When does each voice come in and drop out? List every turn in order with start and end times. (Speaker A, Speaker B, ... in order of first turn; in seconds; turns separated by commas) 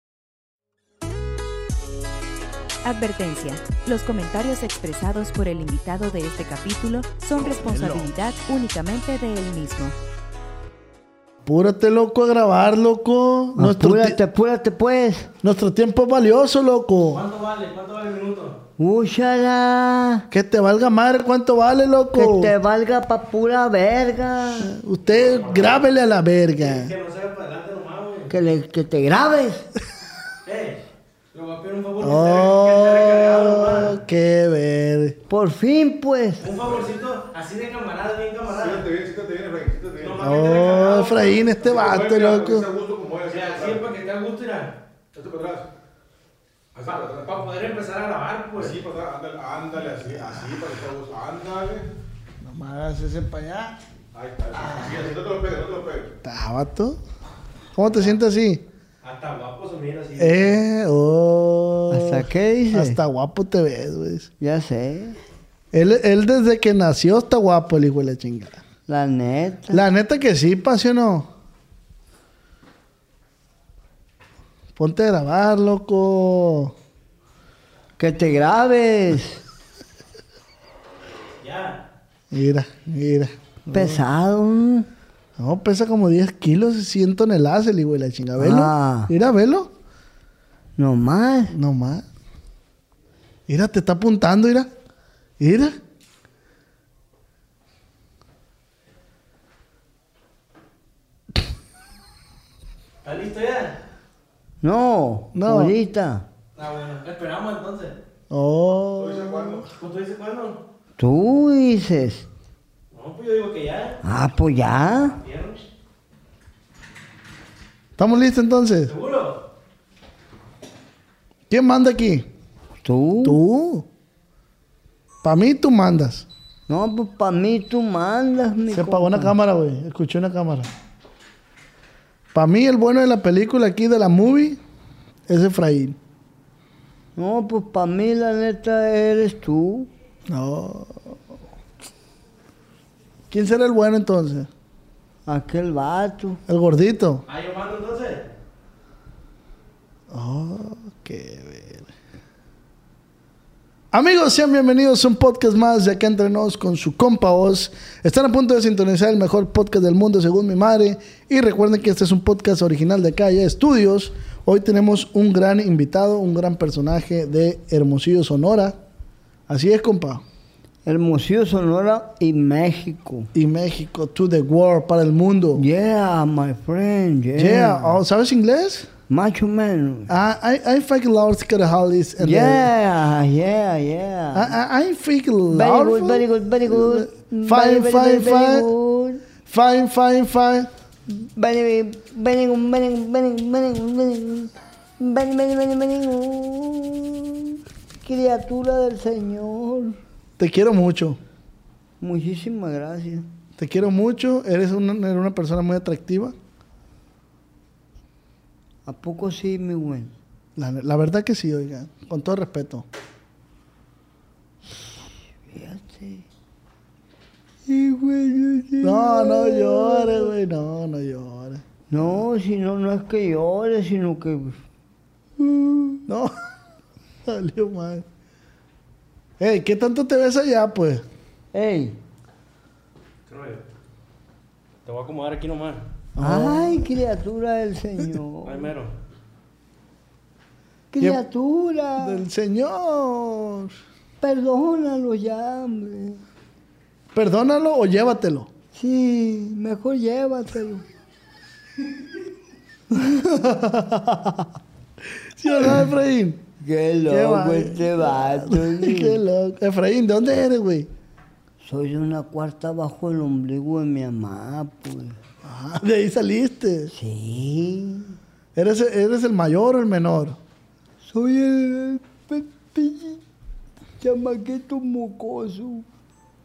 Speaker A: 2.8-9.9, Speaker B: 7.4-8.1, Speaker B: 11.4-14.2, Speaker C: 13.6-15.3, Speaker B: 15.4-17.2, Speaker D: 17.1-18.6, Speaker C: 18.8-20.3, Speaker B: 20.3-22.5, Speaker C: 22.1-24.7, Speaker B: 24.6-26.9, Speaker D: 25.1-25.9, Speaker D: 26.6-28.3, Speaker C: 28.3-29.7, Speaker D: 30.4-34.0, Speaker B: 32.0-35.2, Speaker C: 35.3-36.5, Speaker D: 36.4-38.9, Speaker E: 36.6-36.9, Speaker E: 38.5-43.9, Speaker D: 40.0-41.4, Speaker B: 40.2-42.7, Speaker D: 43.3-44.7, Speaker E: 45.1-45.7, Speaker E: 46.7-47.5, Speaker D: 46.9-48.8, Speaker E: 48.6-51.9, Speaker B: 52.4-53.8, Speaker E: 54.1-56.1, Speaker B: 56.2-57.0, Speaker B: 57.8-58.7, Speaker D: 59.0-60.5, Speaker B: 60.2-64.3, Speaker C: 61.9-63.0, Speaker C: 64.4-65.2, Speaker B: 65.7-68.6, Speaker C: 68.9-69.9, Speaker B: 69.7-71.3, Speaker B: 74.8-76.8, Speaker C: 78.0-79.4, Speaker D: 81.4-81.8, Speaker B: 82.3-84.0, Speaker C: 83.7-84.9, Speaker B: 85.4-89.7, Speaker C: 88.4-89.1, Speaker C: 90.8-91.5, Speaker B: 91.5-92.1, Speaker B: 93.5-94.7, Speaker B: 95.4-95.8, Speaker D: 103.0-103.8, Speaker C: 104.6-106.3, Speaker B: 105.3-105.8, Speaker D: 106.6-108.0, Speaker B: 108.3-109.7, Speaker E: 109.0-109.7, Speaker D: 109.8-110.6, Speaker C: 111.0-112.3, Speaker D: 112.9-114.0, Speaker C: 114.0-115.2, Speaker D: 115.0-115.7, Speaker B: 118.0-118.9, Speaker D: 118.9-119.4, Speaker B: 121.5-122.3, Speaker C: 122.8-123.4, Speaker B: 123.2-123.9, Speaker B: 125.2-126.3, Speaker C: 126.7-129.3, Speaker B: 128.7-130.7, Speaker B: 132.3-134.6, Speaker B: 135.3-136.0, Speaker C: 137.2-139.9, Speaker B: 140.3-141.2, Speaker B: 143.3-144.5, Speaker C: 145.3-146.4, Speaker B: 146.5-147.2, Speaker D: 147.3-148.3, Speaker B: 150.1-151.9, Speaker B: 153.9-168.8, Speaker B: 169.5-170.2, Speaker C: 170.9-173.3, Speaker B: 173.3-175.6, Speaker C: 175.6-178.0, Speaker B: 177.4-178.9, Speaker C: 179.1-180.1, Speaker B: 180.1-182.7, Speaker C: 182.2-184.6, Speaker B: 184.3-188.7, Speaker C: 185.5-189.2, Speaker B: 189.5-190.7, Speaker C: 191.2-200.0, Speaker B: 200.4-201.2, Speaker C: 202.0-203.3, Speaker B: 203.6-206.3, Speaker C: 208.9-210.2, Speaker B: 210.6-212.9, Speaker C: 215.5-216.3, Speaker C: 217.7-220.3, Speaker B: 218.8-222.2, Speaker C: 221.9-224.6, Speaker C: 225.4-226.0, Speaker B: 226.1-226.3, Speaker B: 227.3-228.1, Speaker B: 229.4-231.1, Speaker C: 231.5-232.0, Speaker D: 233.3-233.6, Speaker D: 234.8-235.8, Speaker B: 236.2-236.9, Speaker C: 236.2-238.7, Speaker D: 238.4-238.9, Speaker C: 240.9-242.2, Speaker B: 242.0-243.8, Speaker C: 244.2-246.2, Speaker B: 247.1-248.5, Speaker C: 248.7-250.8, Speaker B: 252.9-254.3, Speaker B: 255.4-256.4, Speaker C: 256.6-259.2, Speaker B: 257.1-260.9, Speaker C: 261.6-265.2, Speaker B: 265.4-266.9, Speaker C: 266.9-268.2, Speaker B: 268.6-270.4, Speaker C: 271.0-273.2, Speaker C: 274.0-275.9